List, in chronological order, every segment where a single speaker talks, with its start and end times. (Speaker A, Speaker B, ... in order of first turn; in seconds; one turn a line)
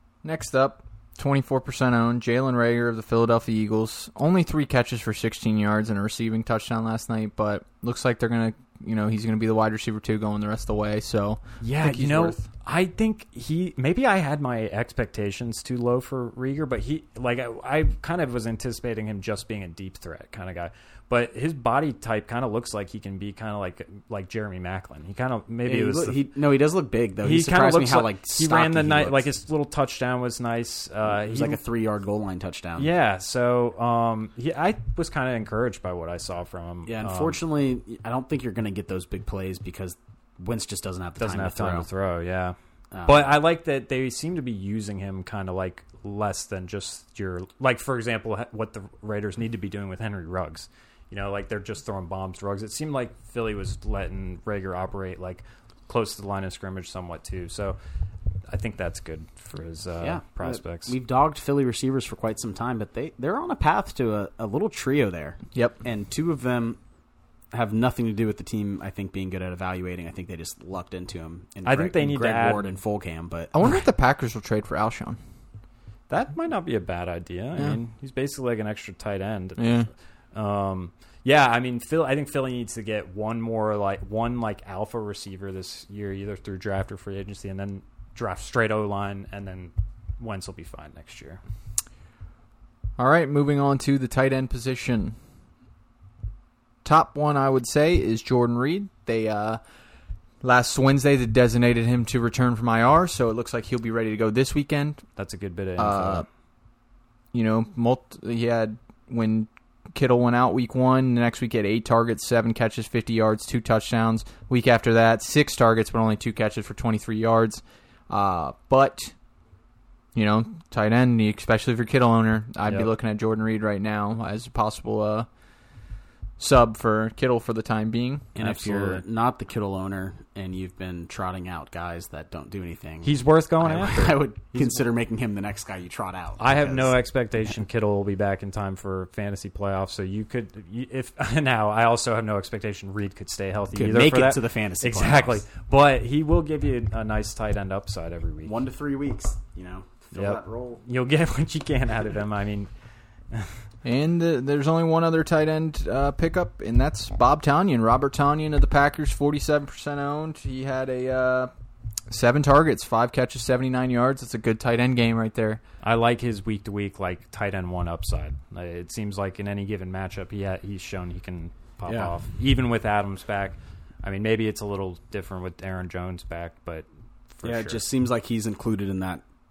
Speaker A: 0.2-12.4
Speaker B: 11.6-26.2
Speaker C: 25.7-29.3
Speaker B: 27.2-31.6
Speaker C: 31.1-32.9
Speaker B: 32.8-37.4
Speaker C: 36.9-41.9
Speaker B: 41.2-57.8
Speaker C: 42.9-43.3
Speaker B: 58.5-61.0
Speaker C: 60.0-66.8
Speaker C: 67.5-73.5
Speaker B: 71.7-72.7
Speaker A: 73.5-75.2
Speaker B: 76.1-91.4
Speaker A: 79.6-79.9
Speaker A: 93.0-95.2
Speaker A: 96.8-99.6
Speaker A: 100.4-105.0
Speaker B: 105.2-106.3
Speaker A: 105.8-106.3
Speaker A: 107.3-119.1
Speaker A: 120.2-125.3
Speaker A: 126.4-129.0
Speaker C: 128.4-137.0
Speaker B: 133.0-134.8
Speaker B: 136.4-148.5
Speaker C: 143.8-145.4
Speaker C: 148.4-150.8
Speaker B: 150.2-152.7
Speaker A: 153.8-161.5
Speaker A: 162.1-165.6
Speaker B: 165.8-177.8
Speaker C: 171.9-172.1
Speaker C: 177.4-179.2